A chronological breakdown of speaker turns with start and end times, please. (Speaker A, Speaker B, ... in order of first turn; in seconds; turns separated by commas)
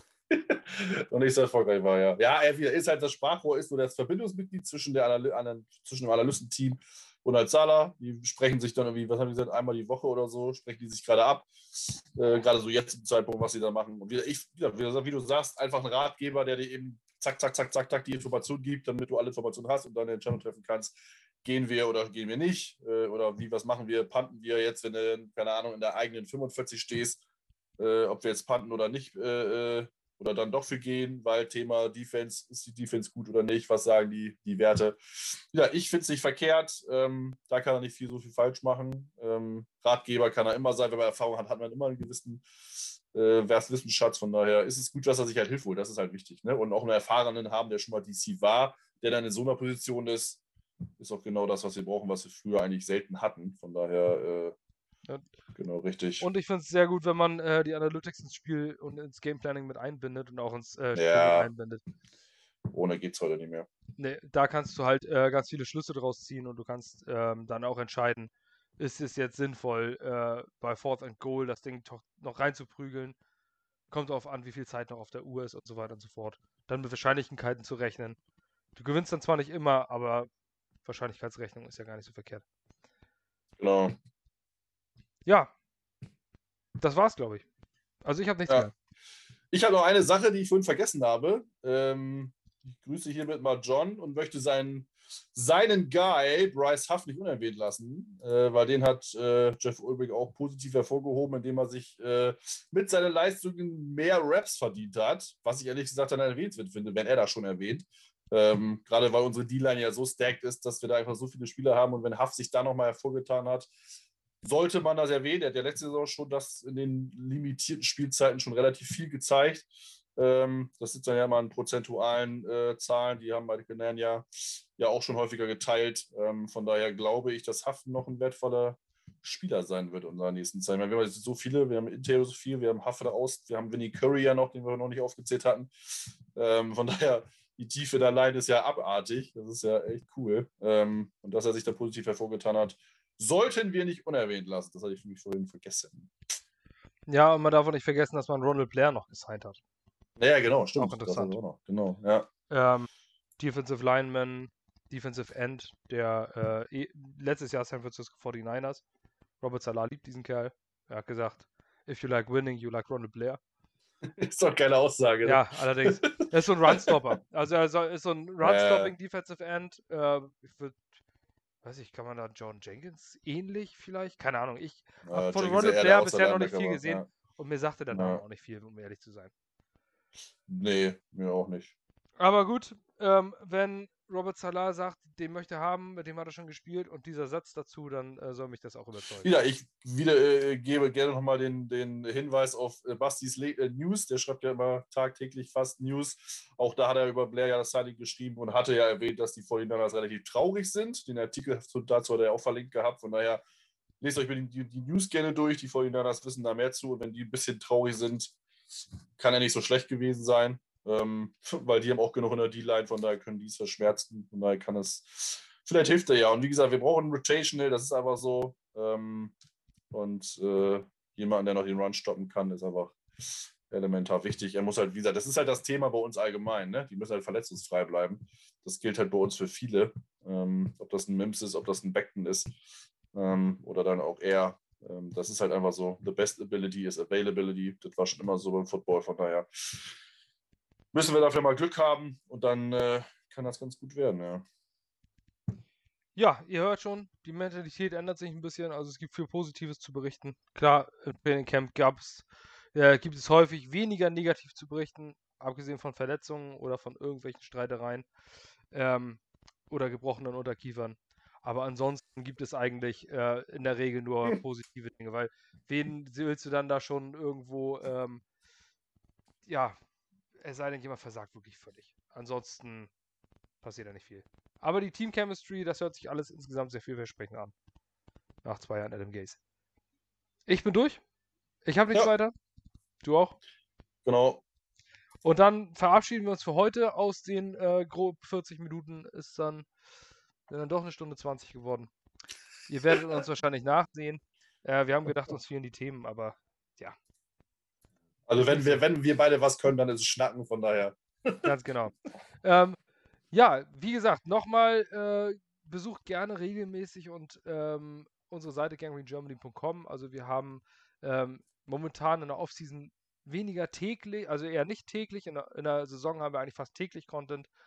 Speaker A: 0.3-27.2, Speaker A: 27.8-50.4, Speaker A: 51.0-54.5, Speaker A: 55.5-56.3, Speaker B: 56.2-61.8, Speaker A: 61.0-61.5, Speaker A: 62.7-63.7, Speaker B: 64.0-73.2, Speaker B: 73.9-78.2, Speaker B: 78.8-80.3, Speaker B: 80.8-82.4, Speaker A: 83.6-84.0, Speaker B: 85.3-85.5, Speaker B: 86.8-87.5, Speaker B: 88.0-88.7, Speaker A: 89.5-113.7, Speaker A: 114.4-146.1, Speaker B: 147.1-149.6, Speaker A: 150.2-152.3, Speaker B: 150.8-151.4, Speaker B: 152.5-152.9, Speaker B: 153.4-158.8, Speaker B: 159.4-163.4, Speaker A: 164.0-166.1, Speaker B: 165.2-170.8, Speaker A: 166.7-167.0, Speaker A: 168.4-168.9, Speaker B: 171.6-179.3, Speaker A: 175.1-177.1, Speaker A: 177.9-178.2, Speaker A: 180.5-181.7, Speaker B: 182.2-189.3, Speaker A: 189.2-203.4, Speaker A: 204.0-208.4, Speaker A: 209.2-219.3, Speaker A: 219.9-232.6, Speaker A: 233.1-239.9, Speaker A: 240.9-244.5, Speaker B: 246.2-258.1, Speaker B: 258.7-268.2, Speaker B: 269.5-269.8, Speaker B: 270.4-272.9, Speaker B: 273.6-277.5, Speaker B: 278.4-279.4, Speaker B: 280.5-281.0, Speaker B: 281.6-282.3, Speaker B: 283.0-283.4, Speaker A: 284.1-284.4, Speaker B: 285.2-289.7, Speaker B: 290.5-291.9, Speaker B: 292.7-297.0, Speaker A: 298.3-301.5, Speaker B: 298.4-298.8, Speaker B: 301.4-302.8, Speaker B: 303.3-317.5